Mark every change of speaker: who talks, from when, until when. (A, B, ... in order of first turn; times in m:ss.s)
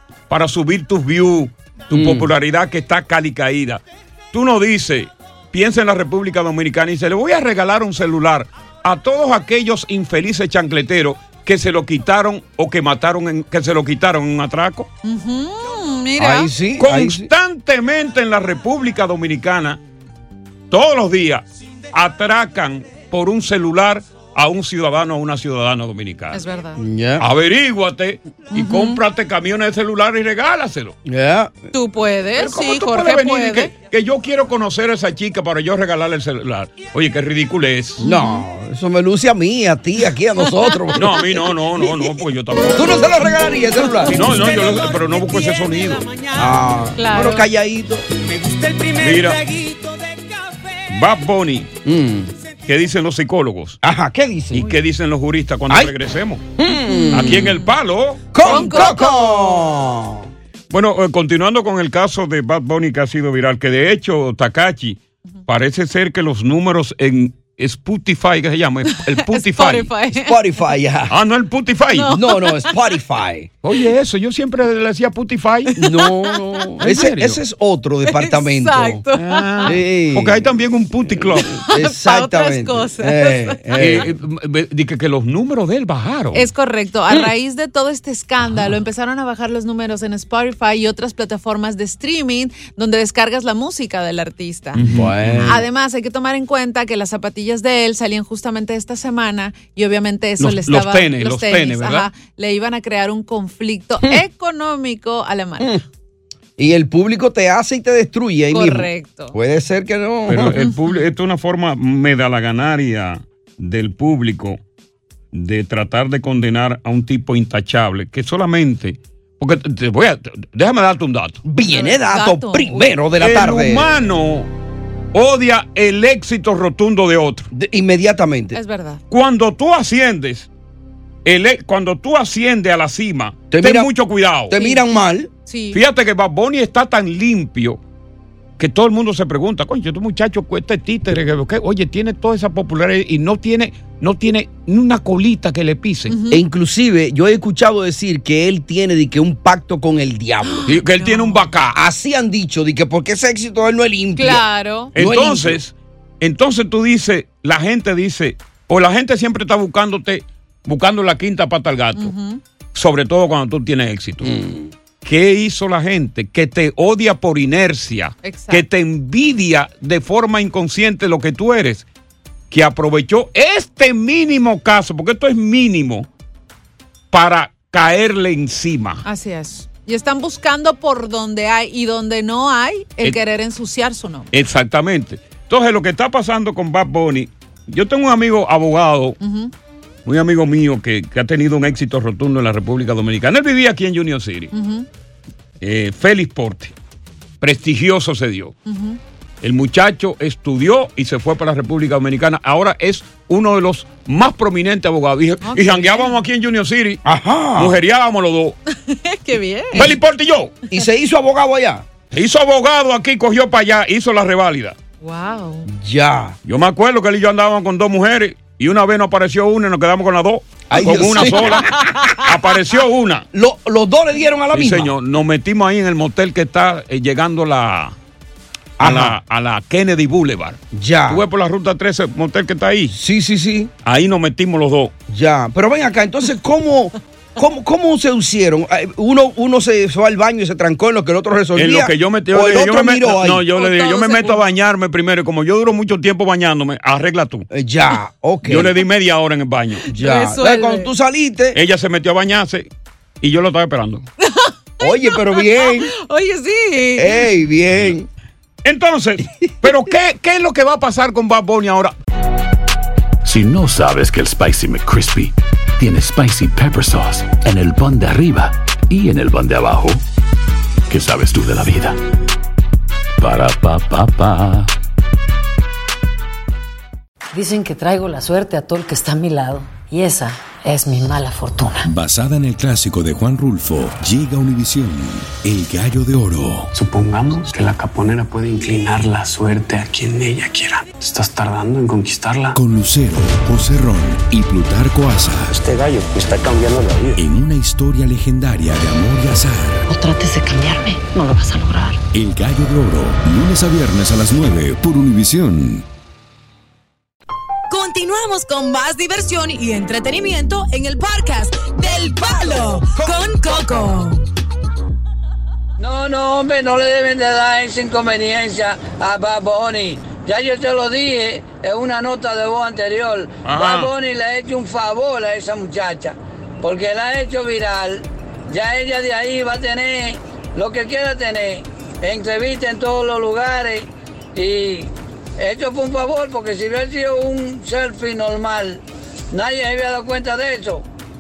0:00.3-0:14.9 A
0:01.9-0:02.3 B
0:15.0-0:16.5 C
0:16.2-0:17.3 B
0:16.8-0:19.8 A
0:20.7-0:26.4 A
0:26.3-0:26.8 C
0:26.8-0:27.2 B
0:27.2-0:30.9 A
0:28.5-0:29.0 C
0:31.0-0:31.7 B
0:31.7-0:33.7 C
0:32.4-0:38.0 A
0:38.0-0:41.3 B
0:38.0-0:38.4 C
0:40.4-0:40.7 C
0:40.9-0:43.0 A
0:42.7-0:44.6 B
0:44.1-0:46.1 A
0:46.3-0:48.7 B
0:47.0-0:47.4 C
0:49.0-0:49.5 A
0:50.9-0:51.7 A
0:51.8-0:52.3 B
0:52.6-0:53.8 A
0:53.8-0:54.7 B
0:54.5-0:56.4 A
0:56.6-0:57.6 B
0:56.9-0:57.6 C
0:57.1-0:59.0 A
0:58.3-1:00.3 B
0:58.4-0:59.6 C
1:00.7-1:09.9 A
1:08.9-1:10.5 C
1:10.1-1:11.2 B
1:11.1-1:12.2 A
1:11.9-1:12.7 C
1:12.1-1:13.5 B
1:13.6-1:15.8 A
1:15.8-1:19.0 B
1:15.8-1:16.8 C
1:16.8-1:17.4 A
1:18.0-1:19.7 C
1:19.1-1:21.6 A
1:19.6-1:20.4 B
1:21.3-1:24.1 B
1:21.7-1:24.0 C
1:23.8-1:26.5 A
1:26.3-1:34.8 C
1:34.8-1:35.6 A
1:34.8-1:35.6 B
1:35.4-1:45.8 C
1:40.4-1:42.1 A
1:46.6-1:50.6 B
1:48.5-1:49.3 C
1:50.3-1:54.6 A
1:50.6-1:51.0 C
1:55.3-2:01.4 A
2:01.4-2:03.9 B
2:01.7-2:02.9 C
2:03.2-2:04.5 A
2:05.1-2:07.5 A
2:07.5-2:08.6 B
2:08.5-2:09.0 C
2:09.1-2:10.5 A
2:11.2-2:14.5 A
2:13.5-2:13.9 B
2:14.5-2:15.3 B
2:14.5-2:14.8 C
2:15.4-2:15.8 C
2:15.7-2:17.8 A
2:18.6-2:26.2 A
2:26.1-2:26.4 C
2:26.3-2:30.7 B
2:30.4-2:31.4 C
2:30.7-2:31.8 A
2:31.7-2:34.4 B
2:34.2-2:34.9 C
2:34.9-2:35.6 B
2:34.9-2:42.1 A
2:42.0-2:42.4 C
2:42.7-2:44.3 A
2:44.2-2:44.7 B
2:45.0-2:51.8 A
2:48.2-2:48.6 C
2:52.5-2:56.1 A
2:57.1-2:59.0 A
2:59.0-3:04.3 C
3:04.3-3:09.2 A
3:09.2-3:09.5 C
3:10.0-3:14.5 A
3:14.5-3:14.9 C
3:15.6-3:16.7 A
3:17.4-3:18.5 A
3:18.6-3:19.0 C
3:19.4-3:27.0 A
3:25.4-3:26.2 C
3:27.0-3:27.8 B
3:27.6-3:28.6 A
3:28.8-3:29.9 C
3:29.7-3:30.5 A
3:30.7-3:31.8 B
3:32.1-3:34.8 A
3:35.0-3:35.7 C
3:35.6-3:36.4 B
3:36.4-3:43.2 A
3:40.7-3:42.1 B
3:41.2-3:42.0 C
3:43.3-3:44.9 B
3:44.5-3:48.0 A
3:48.8-3:49.2 B
3:48.8-3:52.9 A
3:50.7-3:51.2 B
3:52.9-3:53.7 B
3:53.8-3:54.9 A
3:55.1-4:03.5 B
4:01.6-4:07.5 A
4:03.5-4:04.4 C
4:07.5-4:08.7 B
4:08.4-4:09.9 A
4:09.9-4:11.6 B
4:09.9-4:10.9 C
4:11.5-4:12.7 A
4:13.2-4:14.0 A
4:14.2-4:17.2 C
4:14.8-4:15.9 B
4:17.0-4:18.1 B
4:18.6-4:21.9 A
4:23.2-4:30.0 D
4:30.9-4:32.0 D
4:33.2-4:34.7 D
4:37.3-4:41.9 E
4:41.8-4:46.7 F
4:46.7-4:52.6 G
4:52.5-4:55.6 F
4:55.6-4:57.1 G
4:57.1-4:59.8 F
4:59.9-5:02.0 E
5:02.1-5:05.8 F
5:07.7-5:14.2 H
5:15.8-5:38.8 I
5:23.4-5:23.9 A
5:39.3-5:40.8 I